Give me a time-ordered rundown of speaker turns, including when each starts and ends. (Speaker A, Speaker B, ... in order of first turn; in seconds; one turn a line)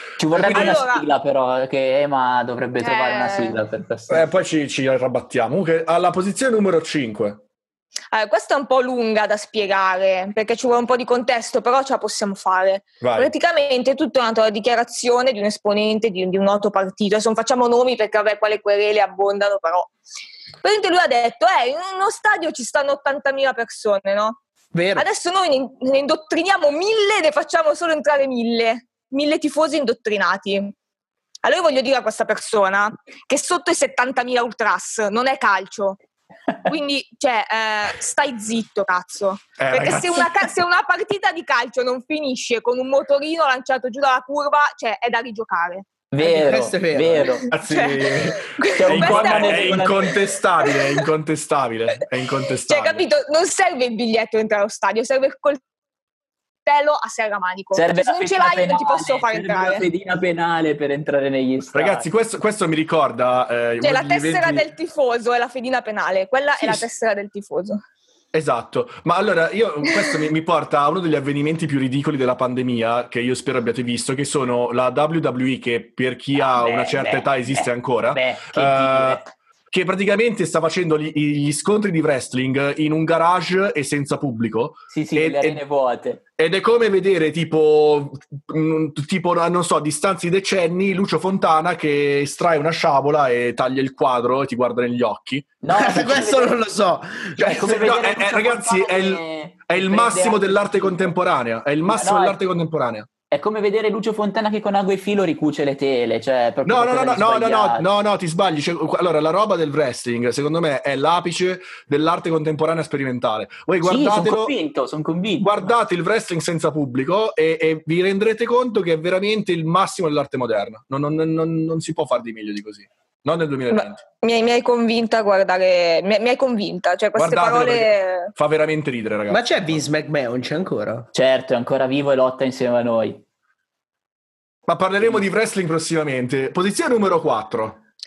Speaker A: 0.2-4.2
Speaker B: 0.3-1.1
Speaker C: 0.4-0.8
Speaker B: 2.8-3.6
Speaker C: 4.1-7.4
Speaker B: 8.1-19.9
Speaker C: 13.0-13.3
Speaker B: 20.6-24.4
Speaker D: 24.7-25.1
Speaker B: 24.9-30.7
Speaker B: 31.4-36.0
Speaker B: 36.6-45.9
Speaker C: 39.6-40.4
Speaker A: 46.1-47.5
Speaker D: 46.2-47.3
Speaker C: 47.5-53.0
Speaker B: 47.6-49.9
Speaker A: 48.7-50.2
Speaker B: 50.6-51.1
Speaker B: 52.7-55.6
Speaker B: 56.6-59.9
Speaker A: 57.7-62.1
Speaker C: 61.7-64.7
Speaker B: 63.8-67.8
Speaker C: 68.3-85.6
Speaker B: 69.8-70.2
Speaker A: 76.3-79.3
Speaker A: 84.9-86.2
Speaker C: 86.4-95.5
Speaker A: 95.6-96.5
Speaker D: 95.7-97.4
Speaker A: 97.4-101.1
Speaker C: 97.4-103.1
Speaker A: 101.9-102.4
Speaker A: 103.3-107.8
Speaker C: 106.6-114.5
Speaker A: 113.8-115.6
Speaker C: 115.4-124.0
Speaker B: 123.7-128.3
Speaker C: 127.2-129.8
Speaker D: 129.3-131.1
Speaker A: 131.1-133.2
Speaker C: 134.7-137.8